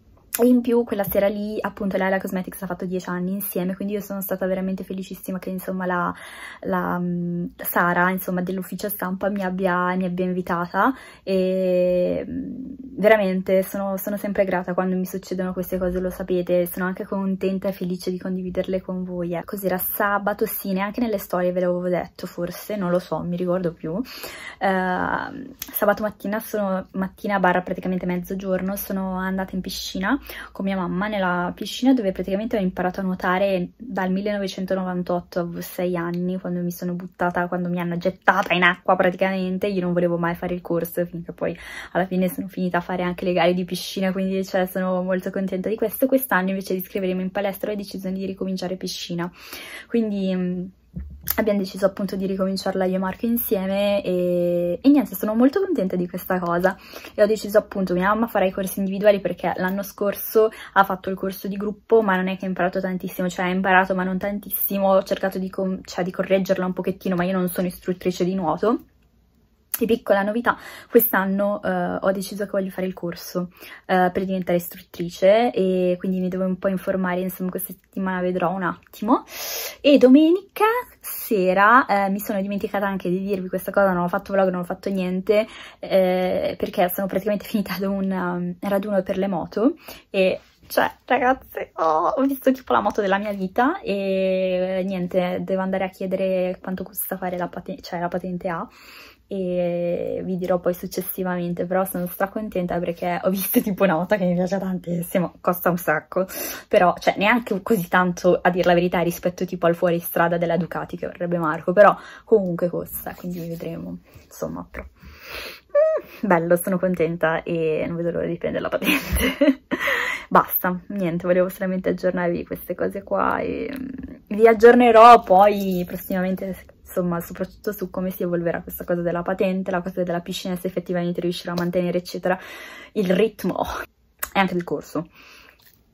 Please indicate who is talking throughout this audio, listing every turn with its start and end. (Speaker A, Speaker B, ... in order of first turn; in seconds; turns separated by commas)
Speaker A: 0.4-24.1, Speaker A: 24.6-49.3, Speaker A: 49.9-50.7, Speaker A: 51.4-68.8, Speaker A: 69.8-98.7, Speaker A: 99.3-132.4, Speaker A: 132.9-133.7, Speaker A: 134.3-135.1